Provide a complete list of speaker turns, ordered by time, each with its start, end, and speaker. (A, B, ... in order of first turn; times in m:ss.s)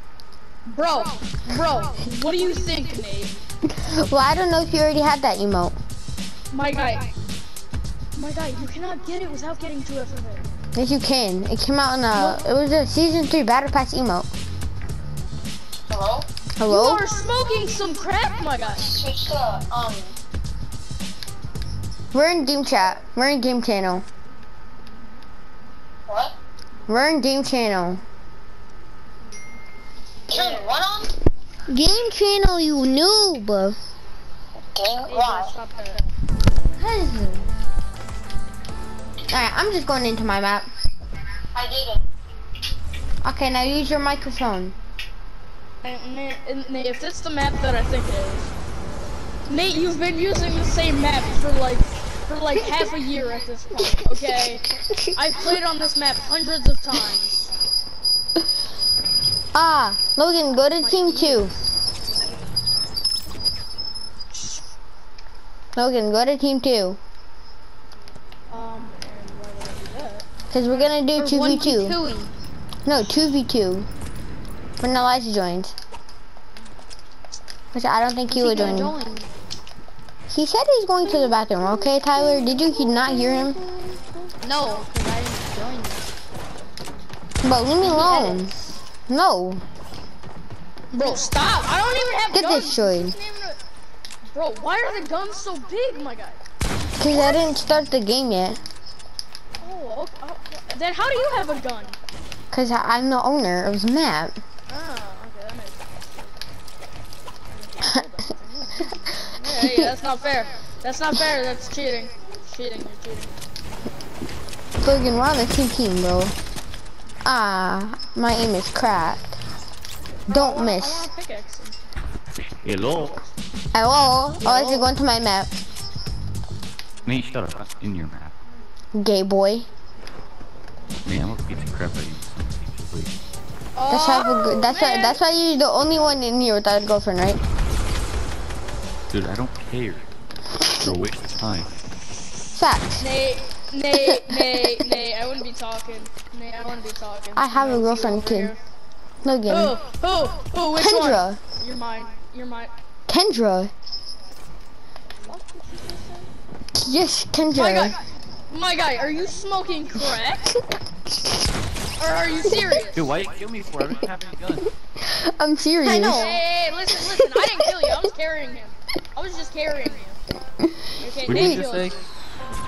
0:00.7-0:03.3 A
0:03.7-0:05.8 B
0:06.5-0:07.1 A
0:08.2-0:10.5 A
0:10.8-0:14.3 B
0:12.1-0:12.4 A
0:15.9-0:16.3 C
0:16.6-0:17.1 B
0:16.7-0:18.9 A
0:18.7-0:20.2 C
0:22.1-0:24.0 B
0:26.1-0:26.4 C
0:26.9-0:28.0 B
0:30.3-0:31.1 C
0:30.3-0:30.7 A
0:31.7-0:33.8 B
0:34.7-0:35.5 C
0:35.1-0:36.1 A
0:36.8-0:37.4 B
0:39.3-0:40.7 B
0:41.5-0:42.0 C
0:43.2-0:44.8 B
0:45.8-0:48.5 A
0:49.5-0:57.5 A
0:54.0-0:55.6 B
0:59.5-1:01.5 B
1:00.8-1:01.5 A
1:05.8-1:07.0 B
1:08.5-1:10.3 A
1:10.5-1:12.0 B
1:11.2-1:12.3 D
1:12.8-1:13.9 B
1:14.8-1:15.8 B
1:17.7-1:19.0 B
1:18.3-1:19.3 D
1:20.3-1:23.6 B
1:22.3-1:26.1 D
1:27.4-1:28.5 B
1:27.8-1:28.6 D
1:29.1-1:29.6 B
1:30.9-1:33.6 A
1:32.3-1:33.2 B
1:34.3-1:36.4 A
1:37.0-1:38.6 B
1:37.1-1:37.5 A
1:39.6-1:42.0 A
1:42.5-1:44.4 B
1:44.7-1:46.4 A
1:47.5-1:53.5 A
1:49.5-1:49.9 B
1:54.8-1:56.4 B
1:57.2-1:59.4 B
2:00.3-2:01.1 B
2:00.3-2:01.8 A
2:02.6-2:03.2 E
2:03.7-2:05.6 B
2:04.5-2:04.8 D
2:07.1-2:08.3 E
2:09.0-2:09.7 B
2:11.1-2:13.2 E
2:13.8-2:15.2 A
2:13.9-2:17.4 B
2:19.1-2:20.1 E
2:20.6-2:21.8 E
2:22.5-2:23.1 B
2:23.0-2:28.6 A
2:23.9-2:24.8 B
2:27.4-2:28.5 B
2:29.2-2:29.8 B
2:29.5-2:32.7 A
2:30.7-2:31.4 B
2:33.1-2:33.7 B
2:35.3-2:36.0 D
2:35.7-2:36.2 A
2:36.8-2:38.0 B
2:37.5-2:40.5 A
2:41.1-2:41.4 B
2:42.0-2:43.1 A
2:42.9-2:44.7 E
2:45.0-2:46.4 B
2:45.8-2:46.4 D
2:46.1-2:50.2 A
2:47.1-2:47.9 B
2:50.6-2:51.6 B
2:51.0-2:51.9 A
2:51.3-2:52.0 E